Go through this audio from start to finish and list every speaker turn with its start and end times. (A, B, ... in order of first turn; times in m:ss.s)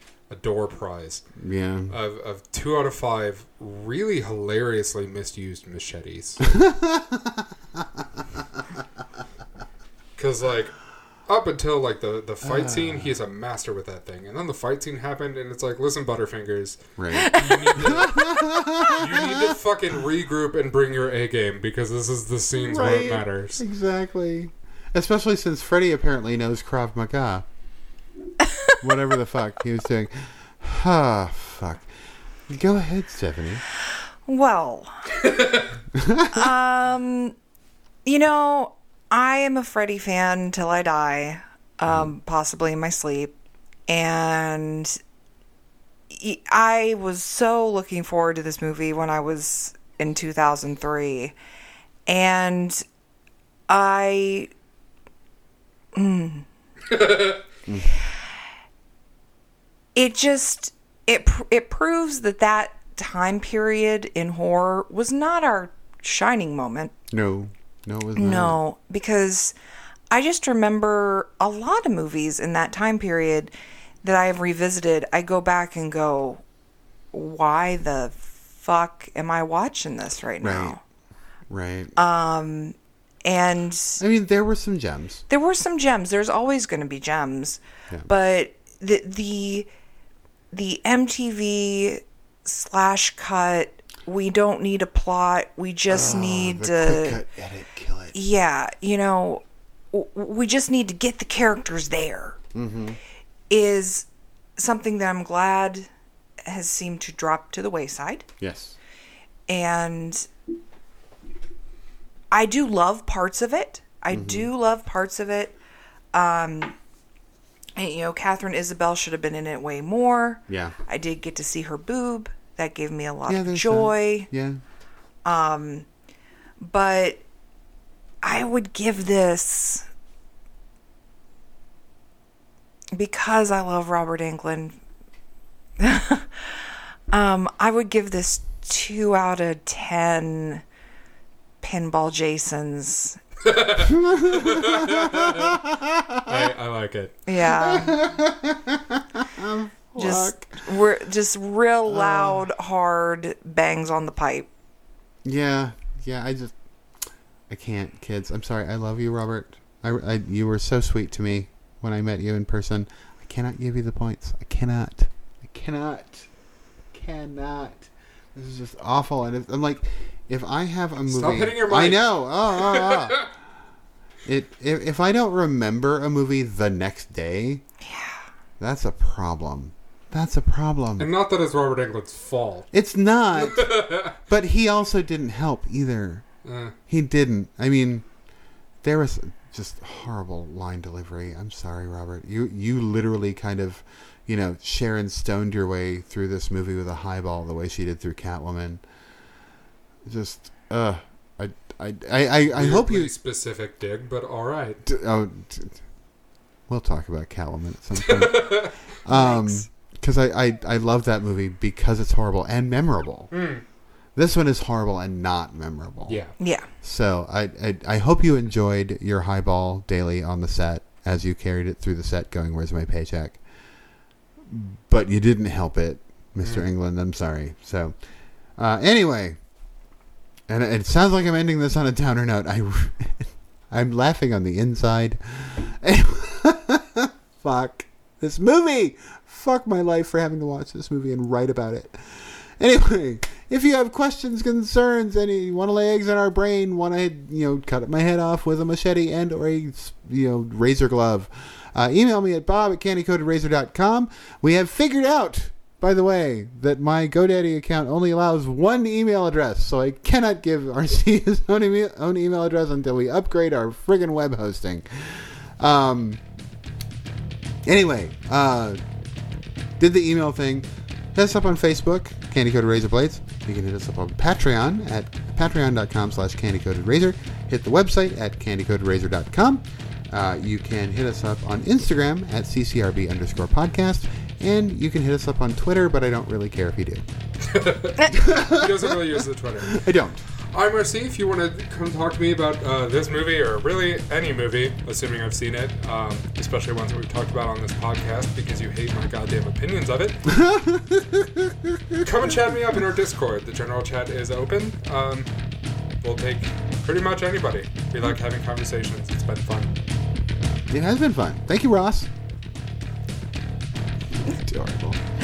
0:00.3-0:01.3 A
0:01.4-0:01.9 B
0:01.9-0:06.4 A
0:06.4-0:08.4 B
0:10.2-0:10.7 A
0:11.3-0:23.6 A
0:12.4-0:13.1 B
0:17.0-0:19.6 B
0:17.2-0:17.8 C
0:22.6-0:27.4 B
0:28.8-0:31.9 B
0:32.5-0:33.6 B
0:34.3-0:35.2 C
0:35.2-0:35.6 A
0:35.9-0:36.5 B
0:36.3-0:37.3 C
0:38.0-0:43.3 C
0:43.9-0:45.0 C
0:46.1-0:51.3 C
0:52.1-0:52.8 C
0:53.7-0:54.5 C
0:55.9-0:56.4 C
0:56.9-0:57.4 A
0:57.6-0:58.0 B
0:59.9-1:06.9 C
1:07.1-1:08.6 B
1:08.2-1:09.5 C
1:10.1-1:13.5 C
1:14.0-1:16.4 C
1:17.1-1:20.8 C
1:20.4-1:20.8 B
1:21.5-1:21.9 B
1:22.0-1:24.0 C
1:24.0-1:25.2 B
1:25.3-1:29.7 C
1:30.5-1:37.2 C
1:35.9-1:38.1 B
1:38.1-1:42.4 C
1:42.5-1:43.0 B
1:43.5-1:45.9 C
1:46.4-1:48.2 C
1:48.4-1:48.8 B
1:49.5-1:50.3 C
1:52.3-1:55.5 C
1:54.1-1:54.5 B
1:56.1-1:56.8 C
1:57.8-2:04.3 C
2:00.5-2:00.7 B
2:03.3-2:04.6 B
2:05.2-2:05.9 C
2:06.6-2:07.2 C
2:08.2-2:09.8 C
2:12.9-2:14.8 C
2:15.8-2:20.6 C
2:21.6-2:23.2 C
2:23.4-2:25.6 A
2:24.0-2:26.4 B
2:26.2-2:27.2 A
2:27.2-2:28.1 C
2:27.4-2:30.6 B
2:30.0-2:34.5 C
2:31.9-2:32.4 B
2:35.2-2:36.5 B
2:37.5-2:46.3 B
2:46.9-2:53.3 B
2:51.1-2:53.3 A
2:54.2-2:57.6 B
2:57.8-2:58.2 C
2:58.6-3:01.1 B
3:01.0-3:02.7 A
3:02.7-3:06.2 B
3:03.3-3:04.2 A
3:06.4-3:06.8 A
3:06.9-3:08.0 B
3:08.8-3:18.8 B
3:20.0-3:23.1 B
3:22.5-3:24.8 A
3:24.8-3:25.8 B
3:26.7-3:33.3 B
3:28.0-3:28.8 A
3:29.1-3:29.6 C
3:33.3-3:33.6 A
3:34.2-3:36.2 B
3:36.1-3:36.4 A
3:36.4-3:36.7 C
3:36.8-3:43.4 B
3:44.5-3:47.9 B
3:48.6-3:49.4 B
3:50.5-4:26.2 B
4:27.6-4:28.8 B
4:29.8-4:47.0 B
4:47.4-4:49.9 A
4:48.0-4:49.0 B
4:49.6-4:50.2 B
4:50.5-5:00.3 A
5:00.3-5:02.3 B
5:02.0-5:05.3 A
5:06.0-5:09.7 A
5:10.7-5:12.1 B
5:14.2-5:15.0 B